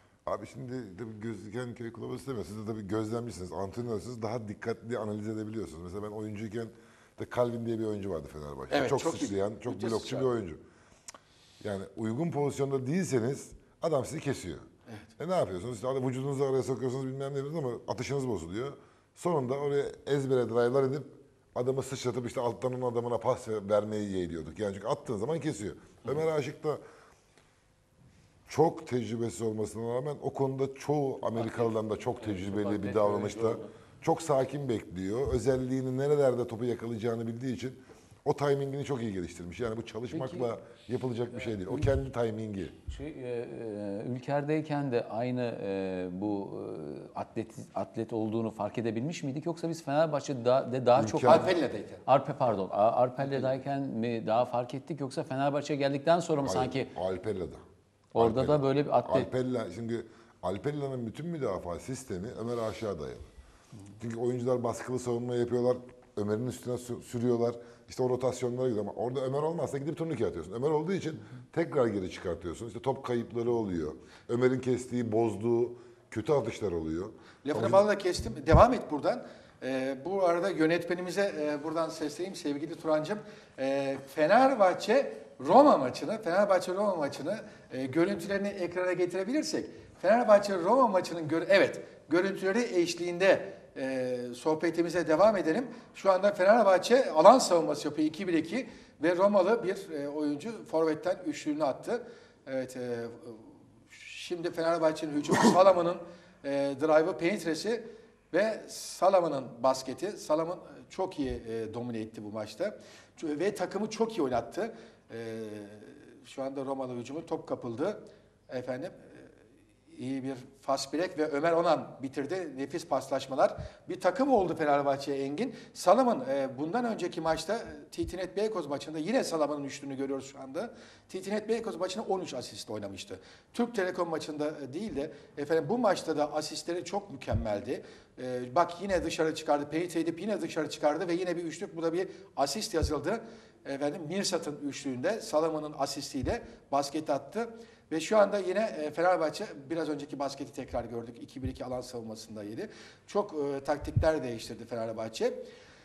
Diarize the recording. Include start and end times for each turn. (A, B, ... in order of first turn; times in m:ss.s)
0:00.2-0:10.6 A
0:08.7-0:10.3 B
0:11.6-0:14.6 A
0:15.2-0:26.8 A
0:28.5-0:42.7 A
0:31.3-0:33.7 C
0:40.1-0:40.5 C
0:41.4-0:41.9 C
0:42.9-0:51.5 C
0:50.9-0:51.5 A
0:51.2-0:52.0 B
0:52.0-0:56.9 C
0:56.4-0:57.6 A
0:58.1-0:59.3 C
0:58.2-1:03.3 A
1:04.0-1:17.8 A
1:17.4-1:59.3 B
1:59.9-2:35.4 B